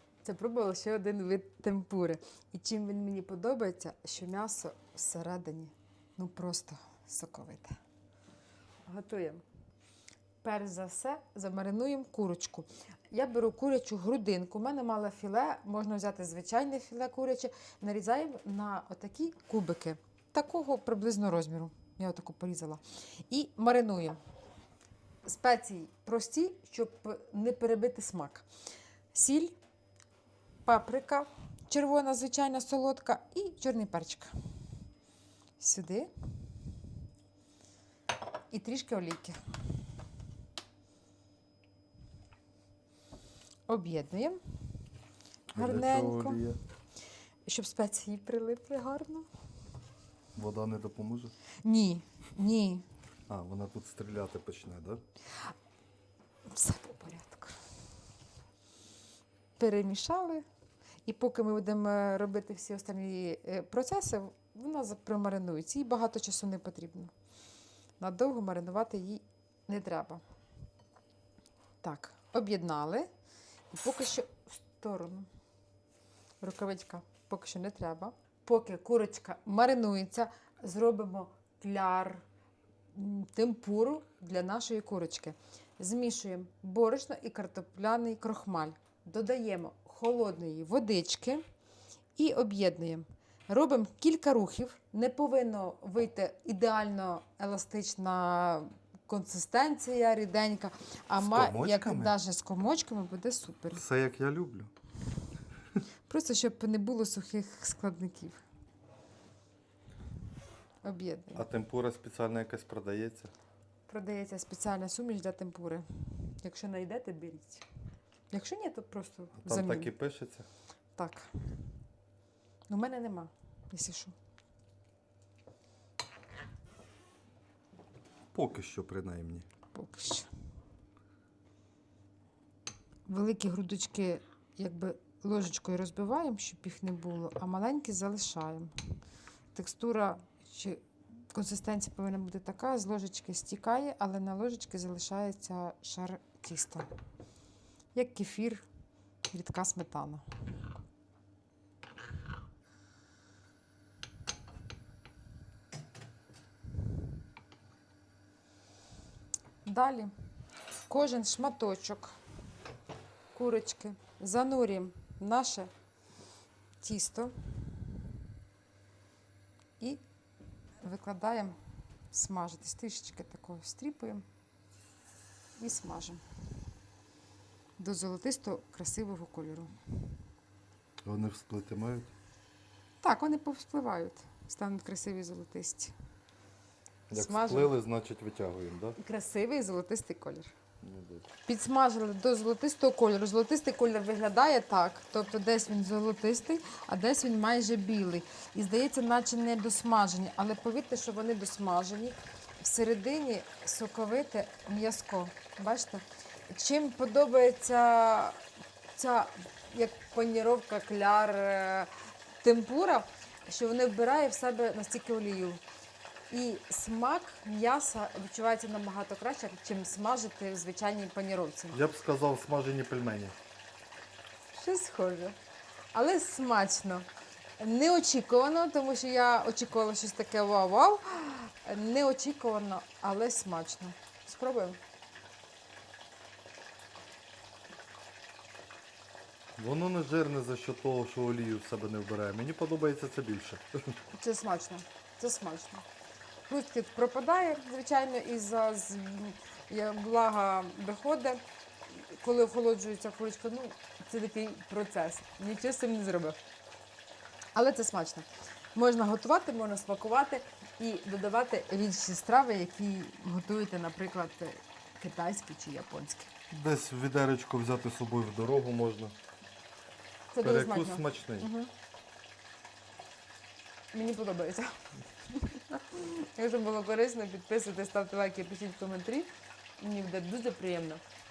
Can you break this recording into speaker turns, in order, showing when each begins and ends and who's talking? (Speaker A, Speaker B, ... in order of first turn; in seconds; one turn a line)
Speaker A: 0.2-7.8
Speaker A: 8.9-9.4
Speaker A: 10.4-24.2
Speaker A: 25.2-28.5
Speaker A: 29.1-29.6
Speaker A: 30.6-34.3
Speaker A: 35.6-36.1
Speaker A: 38.5-39.4
Speaker A: 43.7-44.4
Speaker B: 45.5-46.6
Speaker A: 45.5-46.5
Speaker A: 47.5-49.3
Speaker B: 50.4-51.3
Speaker A: 51.6-52.9
Speaker B: 53.3-55.0
Speaker A: 56.5-57.6
Speaker A: 59.6-60.4
Speaker A: 61.1-67.1
Speaker A: 68.0-70.2
Speaker A: 71.8-73.1
Speaker A: 73.7-75.3
Speaker A: 76.4-82.2
Speaker A: 82.9-91.4
Speaker A: 92.2-103.8
Speaker B: 101.2-102.2
Speaker B: 103.7-104.7
Speaker A: 106.1-108.4
Speaker A: 110.8-111.5
Speaker B: 111.3-113.3
Speaker A: 113.9-117.7
Speaker A: 118.3-119.9
Speaker B: 119.4-120.5
Speaker A: 121.0-121.3
Speaker A: 122.7-124.1
Speaker B: 128.3-129.5
Speaker A: 129.7-130.3
Speaker A: 133.1-138.7
Speaker A: 139.5-146.9
Speaker A: 147.9-148.7
Speaker A: 149.3-150.2
Speaker A: 159.7-160.1
Speaker A: 160.9-162.2
Speaker A: 163.3-165.7
Speaker A: 166.8-167.8
Speaker A: 170.8-171.6
Speaker A: 172.1-174.2
Speaker A: 175.6-176.2
Speaker A: 177.8-179.8
Speaker B: 181.1-182.1
Speaker A: 183.0-185.9
Speaker B: 187.1-189.0
Speaker A: 187.1-187.7
Speaker A: 189.0-190.5
Speaker B: 190.8-191.3
Speaker A: 191.5-208.4
Speaker A: 208.9-211.9
Speaker A: 212.4-215.6
Speaker A: 216.3-221.8
Speaker B: 221.7-223.3
Speaker A: 224.5-225.4
Speaker A: 225.9-227.1
Speaker A: 227.6-234.8
Speaker B: 239.6-243.9
Speaker A: 244.1-245.8
Speaker A: 246.5-256.4
Speaker A: 257.6-266.3
Speaker B: 266.5-269.2
Speaker A: 270.3-271.7
Speaker B: 270.4-271.5
Speaker A: 273.9-281.0